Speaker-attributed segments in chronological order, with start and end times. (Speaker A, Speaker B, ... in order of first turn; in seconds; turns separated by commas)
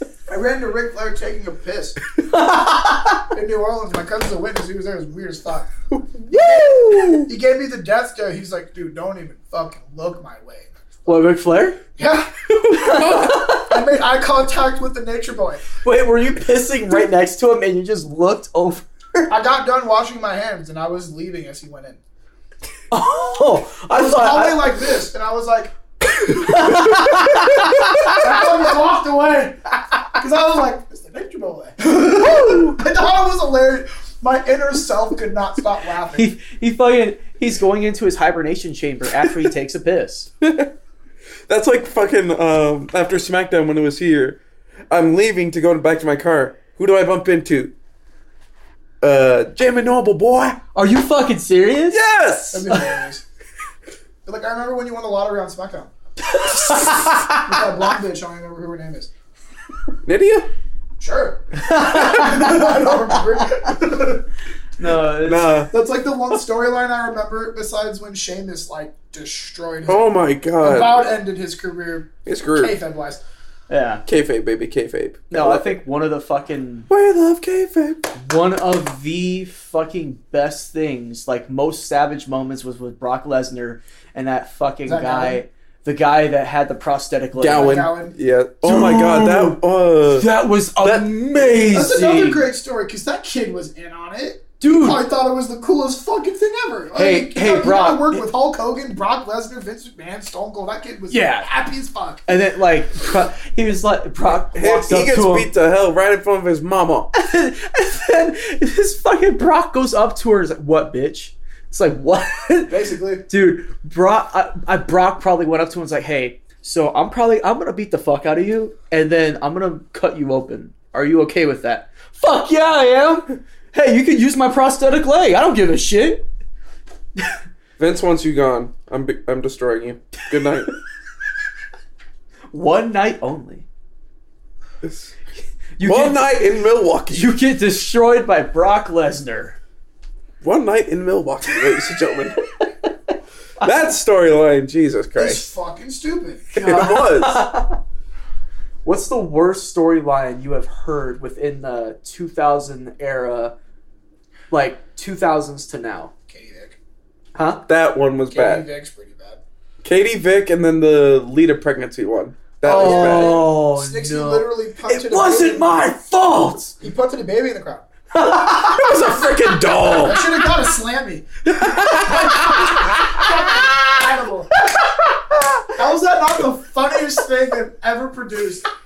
Speaker A: 0.3-2.0, Speaker B: 2.2-3.3, Speaker A: 3.3-5.7, Speaker B: 6.0-7.3, Speaker C: 6.6-7.1, Speaker A: 7.2-11.2, Speaker B: 11.1-11.8, Speaker A: 11.9-12.3, Speaker B: 12.7-13.8, Speaker C: 12.8-13.4, Speaker A: 13.5-15.6, Speaker B: 15.8-19.3, Speaker A: 19.3-22.0, Speaker B: 22.9-24.7, Speaker A: 23.9-25.7, Speaker B: 26.3-28.3, Speaker C: 26.5-27.4, Speaker A: 28.0-36.3, Speaker B: 32.3-32.7, Speaker B: 36.1-40.3, Speaker C: 40.4-40.7, Speaker C: 41.5-44.4, Speaker C: 44.9-47.7, Speaker C: 49.0-50.6, Speaker B: 50.7-52.9, Speaker C: 51.9-52.7, Speaker A: 52.5-53.2, Speaker A: 54.2-55.9, Speaker B: 56.2-57.5, Speaker A: 56.7-59.1, Speaker C: 60.0-60.5, Speaker A: 61.0-64.2, Speaker B: 61.5-63.1, Speaker B: 64.8-65.7, Speaker C: 65.2-65.7, Speaker A: 65.7-73.2, Speaker C: 69.8-71.1, Speaker C: 72.2-72.8, Speaker B: 73.7-74.0, Speaker C: 74.0-75.8, Speaker B: 75.3-76.9, Speaker C: 76.9-78.1, Speaker B: 78.2-87.9, Speaker A: 84.8-85.4, Speaker C: 87.3-90.3, Speaker A: 87.5-88.2, Speaker B: 88.6-89.6, Speaker B: 90.1-92.5, Speaker C: 90.8-91.6, Speaker A: 91.7-102.3, Speaker B: 94.6-95.0, Speaker B: 96.9-98.2, Speaker B: 101.1-101.5, Speaker B: 102.2-105.5, Speaker C: 104.3-107.1, Speaker B: 107.1-126.3, Speaker A: 112.7-113.2, Speaker C: 127.8-130.8, Speaker B: 132.5-133.6, Speaker C: 134.8-135.1, Speaker B: 135.8-136.4, Speaker C: 135.8-137.3, Speaker B: 137.1-139.6, Speaker C: 140.4-142.4, Speaker C: 143.6-145.4, Speaker A: 145.2-146.4, Speaker B: 146.5-147.8, Speaker C: 146.5-147.5, Speaker B: 148.8-153.5, Speaker B: 154.5-156.1, Speaker A: 156.3-156.8, Speaker B: 157.3-157.7, Speaker C: 157.7-158.7, Speaker A: 158.3-159.4, Speaker C: 159.8-163.5, Speaker B: 162.6-166.8, Speaker A: 162.7-165.8, Speaker A: 166.8-167.9, Speaker B: 168.1-170.2, Speaker C: 168.4-170.3, Speaker A: 170.0-171.3, Speaker C: 171.5-172.9, Speaker B: 171.6-174.0, Speaker A: 172.1-174.5, Speaker B: 174.6-175.7, Speaker A: 175.8-178.6